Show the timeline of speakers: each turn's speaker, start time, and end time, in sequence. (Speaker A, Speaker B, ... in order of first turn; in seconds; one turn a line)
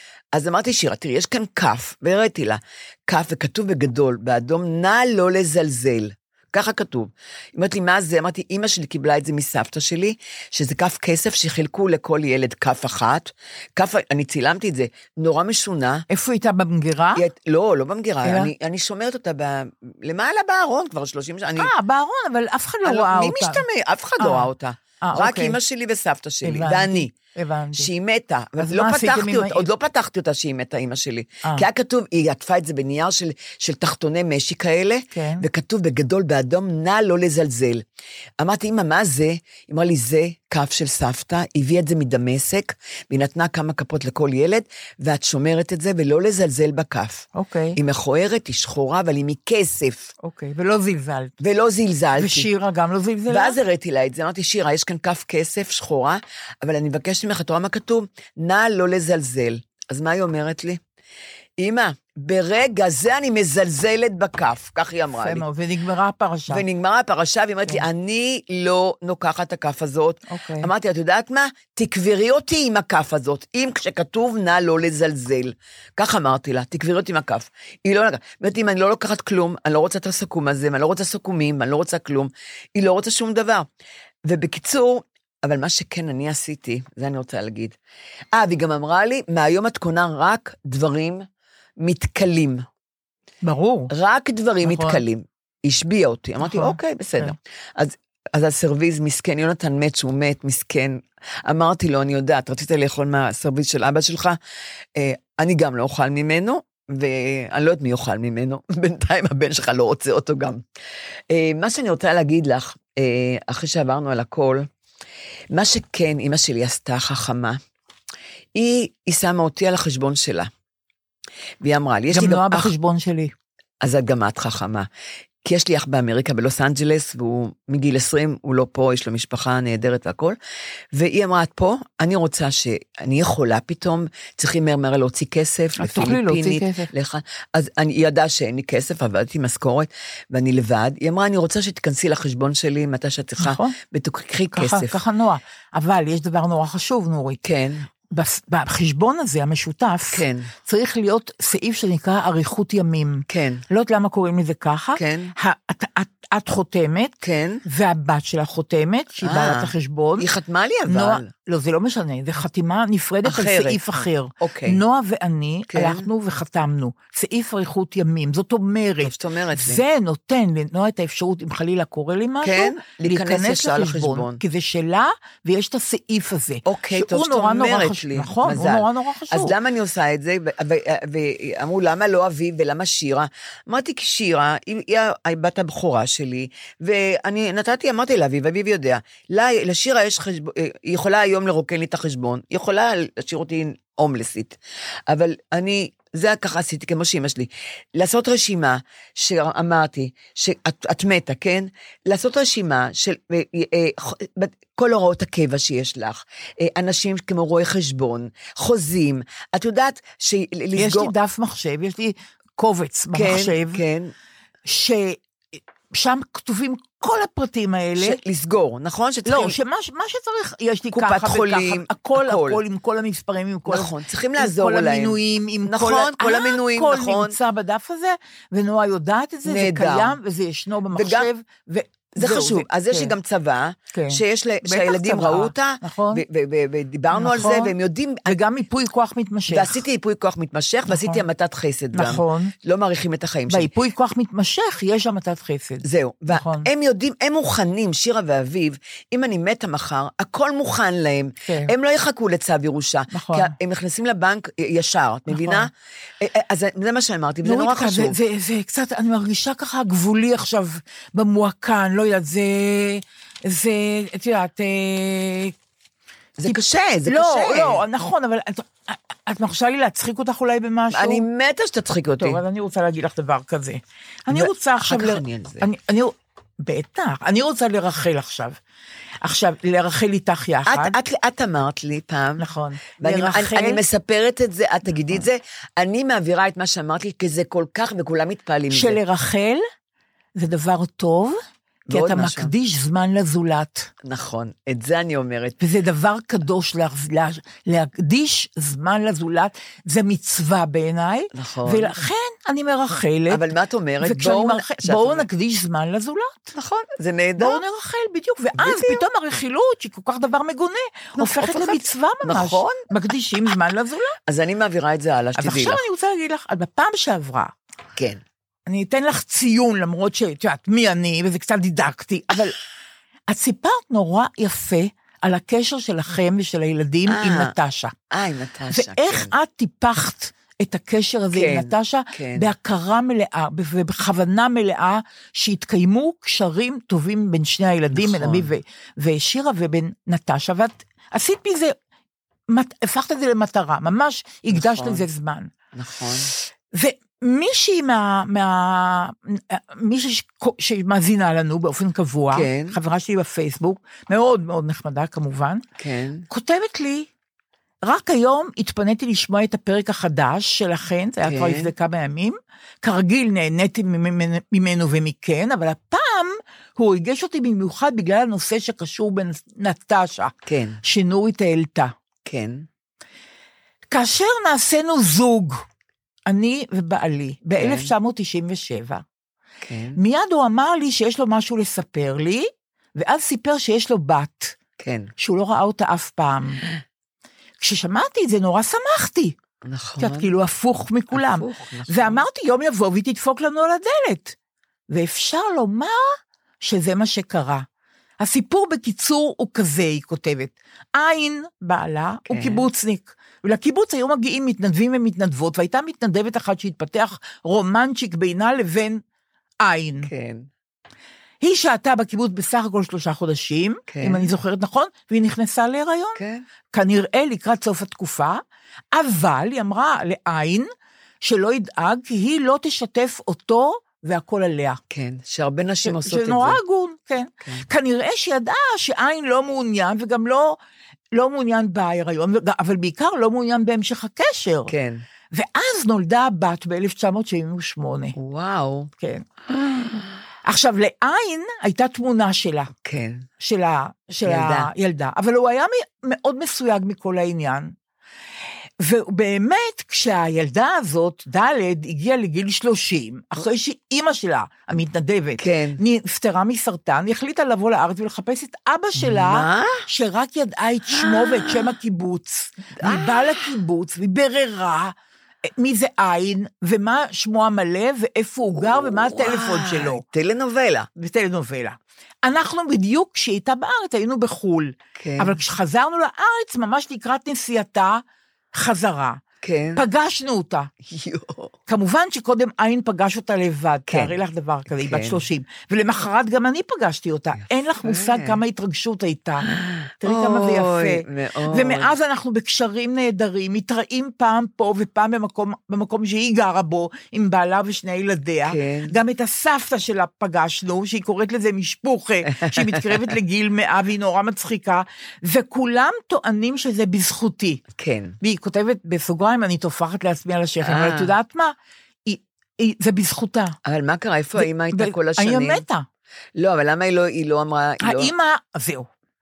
Speaker A: 0.3-16.0
Speaker B: 16.1-17.2
Speaker A: 17.1-21.7
Speaker B: 18.2-18.5
Speaker B: 21.6-23.6
Speaker A: 22.8-27.1
Speaker B: 24.2-24.5
Speaker B: 25.0-25.6
Speaker B: 26.4-27.9
Speaker A: 27.7-37.8
Speaker B: 28.6-29.7
Speaker B: 35.1-35.4
Speaker A: 38.4-50.1
Speaker B: 47.3-47.8
Speaker B: 50.2-51.3
Speaker A: 51.4-52.5
Speaker B: 52.2-53.6
Speaker A: 53.3-60.8
Speaker A: 61.6-65.4
Speaker B: 65.2-66.6
Speaker A: 66.5-83.7
Speaker B: 70.3-70.7
Speaker A: 84.2-87.8
Speaker A: 88.3-91.2
Speaker A: 91.8-92.7
Speaker B: 93.4-93.9
Speaker A: 93.9-104.4
Speaker B: 94.6-95.0
Speaker B: 96.4-97.3
Speaker A: 104.9-110.6
Speaker A: 111.3-114.7
Speaker A: 115.5-117.6
Speaker A: 118.5-120.5
Speaker A: 121.6-122.7
Speaker B: 122.1-123.3
Speaker A: 123.8-124.9
Speaker A: 125.4-130.4
Speaker A: 130.9-145.0
Speaker B: 135.8-136.9
Speaker B: 143.4-143.7
Speaker B: 144.5-147.4
Speaker A: 147.4-147.9
Speaker B: 148.1-157.1
Speaker A: 150.1-150.5
Speaker A: 153.3-153.6
Speaker A: 154.9-155.3
Speaker A: 157.2-157.6
Speaker B: 157.7-160.3
Speaker A: 159.2-161.3
Speaker B: 160.9-179.5
Speaker A: 163.2-164.8
Speaker A: 165.7-166.1
Speaker A: 169.0-169.8
Speaker A: 172.4-174.4
Speaker A: 176.7-211.1
Speaker B: 210.8-213.8
Speaker A: 213.1-214.1
Speaker B: 214.7-215.2
Speaker B: 215.9-218.2
Speaker A: 218.0-219.6
Speaker B: 219.2-233.1
Speaker A: 220.9-222.6
Speaker A: 223.7-227.4
Speaker A: 229.4-230.2
Speaker A: 230.9-231.3
Speaker A: 232.2-238.4
Speaker B: 233.9-236.2
Speaker B: 237.1-237.7
Speaker B: 238.3-239.8
Speaker A: 239.5-243.7
Speaker B: 240.9-241.2
Speaker B: 241.9-242.5
Speaker B: 243.5-246.7
Speaker A: 245.8-258.2
Speaker B: 251.4-251.7
Speaker B: 253.1-253.5
Speaker B: 255.3-255.7
Speaker B: 257.4-265.5
Speaker A: 266.4-267.8
Speaker B: 266.4-271.2
Speaker A: 270.9-272.4
Speaker B: 272.2-278.6
Speaker A: 274.3-275.7
Speaker B: 279.2-281.0
Speaker A: 280.7-282.4
Speaker B: 282.4-283.8
Speaker A: 283.0-289.0
Speaker B: 288.7-289.6
Speaker B: 290.4-293.9
Speaker A: 291.9-292.5
Speaker A: 294.0-295.6
Speaker B: 295.6-303.4
Speaker A: 301.3-301.9
Speaker A: 303.3-305.2
Speaker B: 304.0-306.5
Speaker A: 306.5-307.6
Speaker B: 307.4-314.1
Speaker A: 308.6-309.0
Speaker A: 311.2-312.9
Speaker A: 314.3-315.8
Speaker B: 315.4-317.5
Speaker A: 317.9-318.2
Speaker B: 318.7-322.6
Speaker B: 323.3-327.9
Speaker A: 327.1-327.5
Speaker A: 328.1-329.3
Speaker B: 328.7-341.8
Speaker A: 331.3-332.5
Speaker A: 337.9-338.5
Speaker B: 342.5-345.5
Speaker A: 344.5-345.0
Speaker A: 345.7-346.3
Speaker B: 346.3-355.6
Speaker A: 352.3-352.8
Speaker A: 355.8-356.3
Speaker B: 356.3-357.1
Speaker B: 357.8-371.9
Speaker A: 361.2-361.7
Speaker A: 370.4-370.8
Speaker A: 372.2-372.7
Speaker B: 373.9-375.6
Speaker B: 376.3-379.0
Speaker A: 377.6-377.9
Speaker A: 379.6-380.0
Speaker B: 379.9-384.6
Speaker A: 384.8-385.1
Speaker B: 385.2-386.6
Speaker B: 387.6-389.4
Speaker A: 389.6-390.3
Speaker B: 390.0-394.4
Speaker A: 391.1-392.2
Speaker B: 394.9-397.6
Speaker B: 398.2-409.0
Speaker A: 402.2-402.6
Speaker B: 409.6-410.1
Speaker A: 410.0-410.5
Speaker B: 411.4-416.2
Speaker A: 413.9-414.3
Speaker A: 416.1-416.4
Speaker B: 416.7-418.4
Speaker B: 418.9-420.7
Speaker B: 421.2-424.8
Speaker A: 424.9-426.6
Speaker B: 425.8-430.6
Speaker B: 431.1-434.7
Speaker A: 434.7-435.0
Speaker B: 435.3-438.1
Speaker A: 438.1-438.9
Speaker A: 439.5-440.1
Speaker B: 440.4-442.7
Speaker A: 442.8-443.2
Speaker B: 443.4-447.7
Speaker A: 444.2-444.7
Speaker B: 448.8-464.9
Speaker A: 455.4-455.8
Speaker A: 459.0-459.8
Speaker A: 461.0-461.7
Speaker A: 462.8-463.4
Speaker B: 465.4-470.0
Speaker A: 468.6-470.9
Speaker B: 471.0-478.0
Speaker A: 474.9-475.4
Speaker B: 478.5-479.2
Speaker A: 479.4-479.8
Speaker B: 479.8-480.7
Speaker A: 480.9-481.5
Speaker B: 481.7-489.5
Speaker A: 483.9-484.1
Speaker A: 484.7-485.2
Speaker A: 487.8-488.4
Speaker A: 489.5-491.9
Speaker B: 490.0-507.6
Speaker A: 498.4-498.9
Speaker A: 502.3-503.1
Speaker A: 507.7-508.1
Speaker B: 508.2-511.5
Speaker A: 510.6-511.1
Speaker B: 512.0-513.6
Speaker A: 513.6-515.6
Speaker B: 514.4-515.9
Speaker A: 516.4-518.1
Speaker B: 517.8-518.9